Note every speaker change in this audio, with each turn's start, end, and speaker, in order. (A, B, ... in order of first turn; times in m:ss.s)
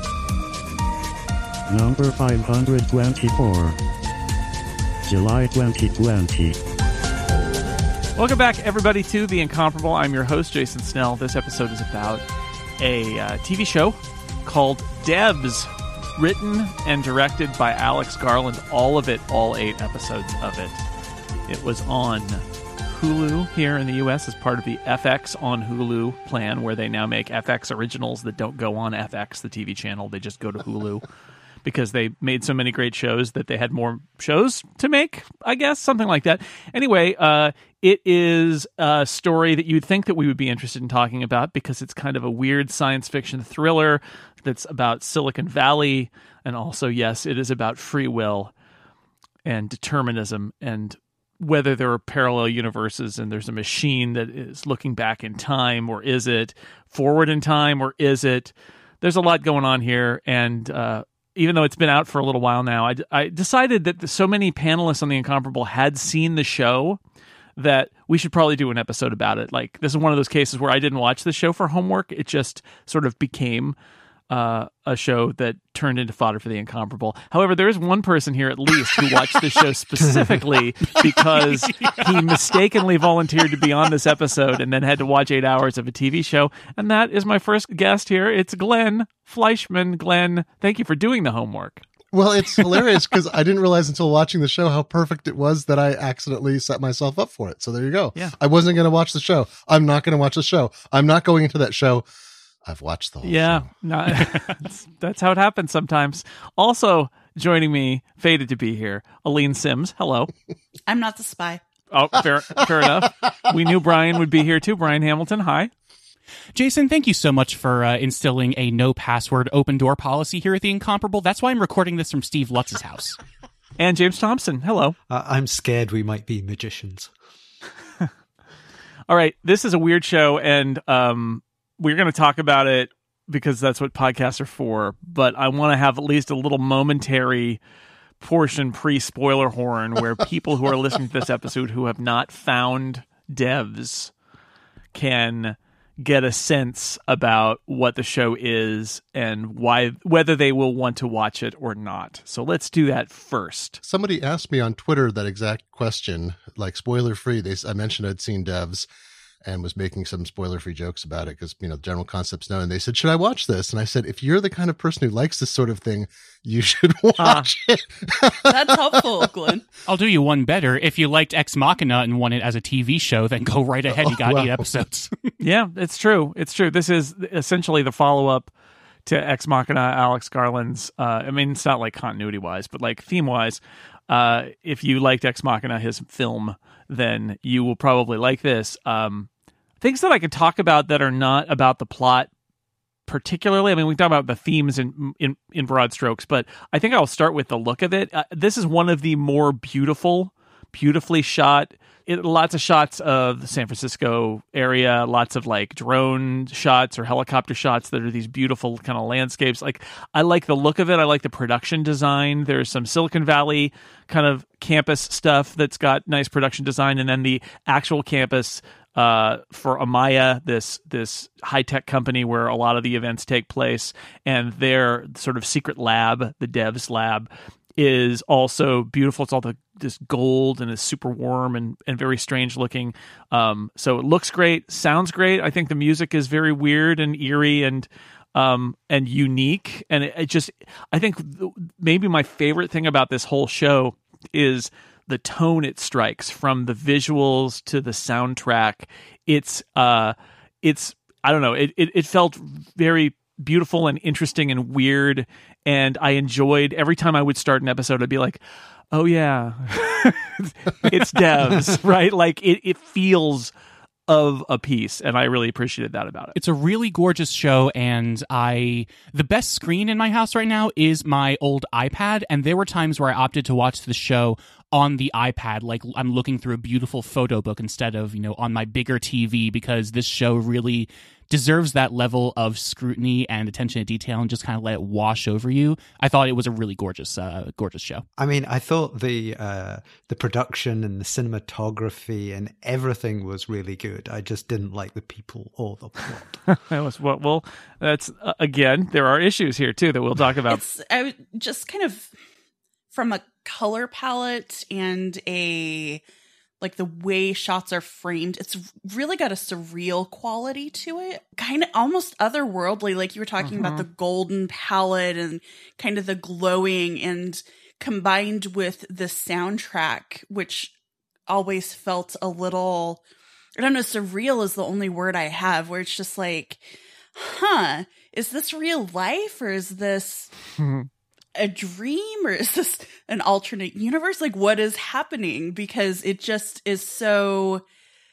0:01.7-0:03.8 A
0:05.1-0:06.6 A
0:08.2-0:12.2 B
0:12.8-0:20.8 B
0:21.5-0:31.1 B
0:31.6-0:48.5 B
0:49.4-1:07.0 B
1:07.6-1:13.8 B
1:14.3-1:31.8 B
1:20.0-1:20.4 C
1:21.0-1:22.4 D
1:32.1-1:42.0 E
1:42.6-1:43.7 E
1:43.2-1:50.3 B
1:50.9-1:51.6 F
1:51.9-1:55.7 B
1:56.5-2:03.2 D
2:03.8-2:05.0 B
2:05.1-2:07.1 C
2:09.1-2:17.6 B
2:18.2-2:24.1 B
2:24.9-2:33.8 B
2:33.8-2:38.9 E
2:39.4-2:49.3 E
2:47.2-2:47.4 B
2:48.4-2:49.6 F
2:49.8-2:55.2 D
2:53.9-2:54.6 E
2:55.4-2:58.5 B
2:59.0-3:09.3 B
3:09.8-3:12.3 B
3:13.1-4:18.4 B
4:18.9-4:23.5 B
4:24.1-4:26.3 B
4:26.3-4:48.0 D
4:48.2-4:56.4 C
4:56.5-5:00.6 B
5:00.5-5:02.1 F
5:02.9-5:06.0 F
5:06.6-5:20.7 F
5:13.4-5:13.8 B
5:21.3-5:23.0 F
5:23.6-5:26.6 F
5:27.1-5:30.3 F
5:30.6-5:30.9 B
5:31.4-5:37.6 F